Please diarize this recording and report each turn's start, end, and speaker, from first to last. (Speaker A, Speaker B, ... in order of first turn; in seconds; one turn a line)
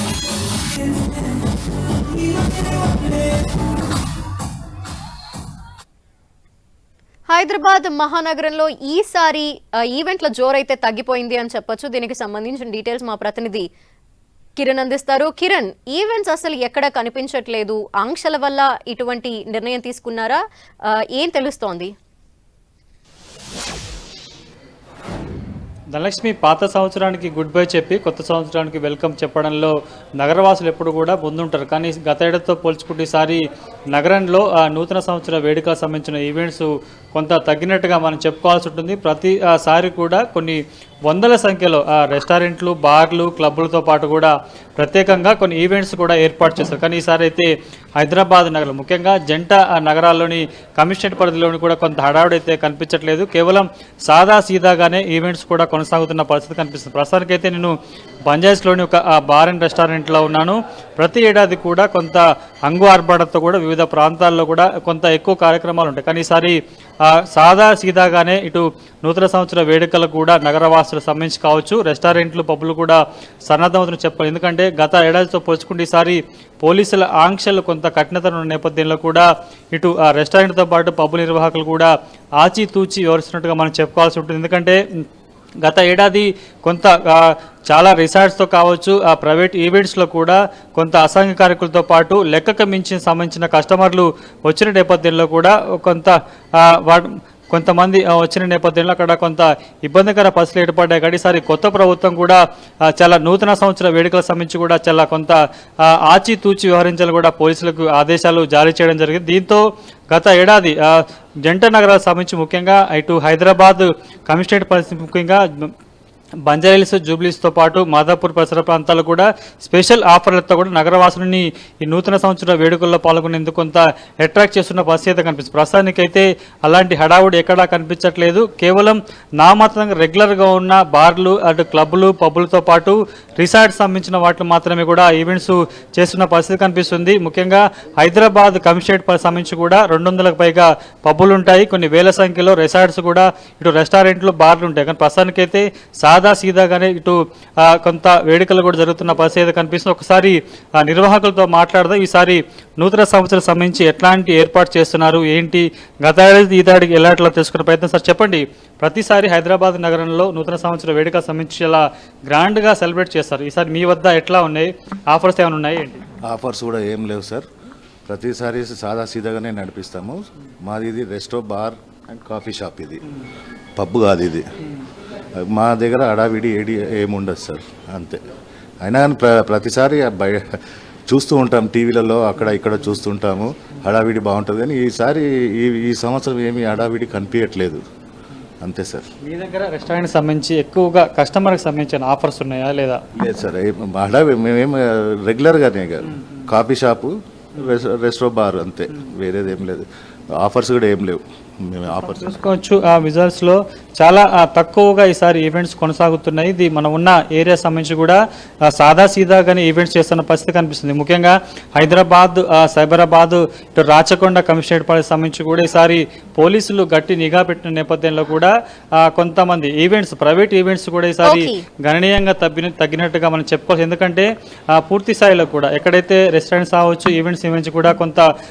Speaker A: 7.3-13.6
Speaker A: 14.6-21.9
Speaker B: 25.9-33.4
Speaker B: 33.9-57.8
Speaker B: 58.3-84.8
Speaker B: 85.6-115.7
Speaker B: 116.4-166.0
Speaker C: 166.2-167.5
Speaker C: 168.1-173.0
Speaker C: 173.8-174.5
Speaker C: 175.4-178.2
Speaker C: 178.8-187.8
Speaker C: 188.6-189.1
Speaker B: 189.2-193.0
Speaker C: 193.1-199.8
Speaker B: 196.1-196.5
Speaker C: 200.4-202.4
Speaker B: 201.9-228.3
Speaker A: 221.2-221.6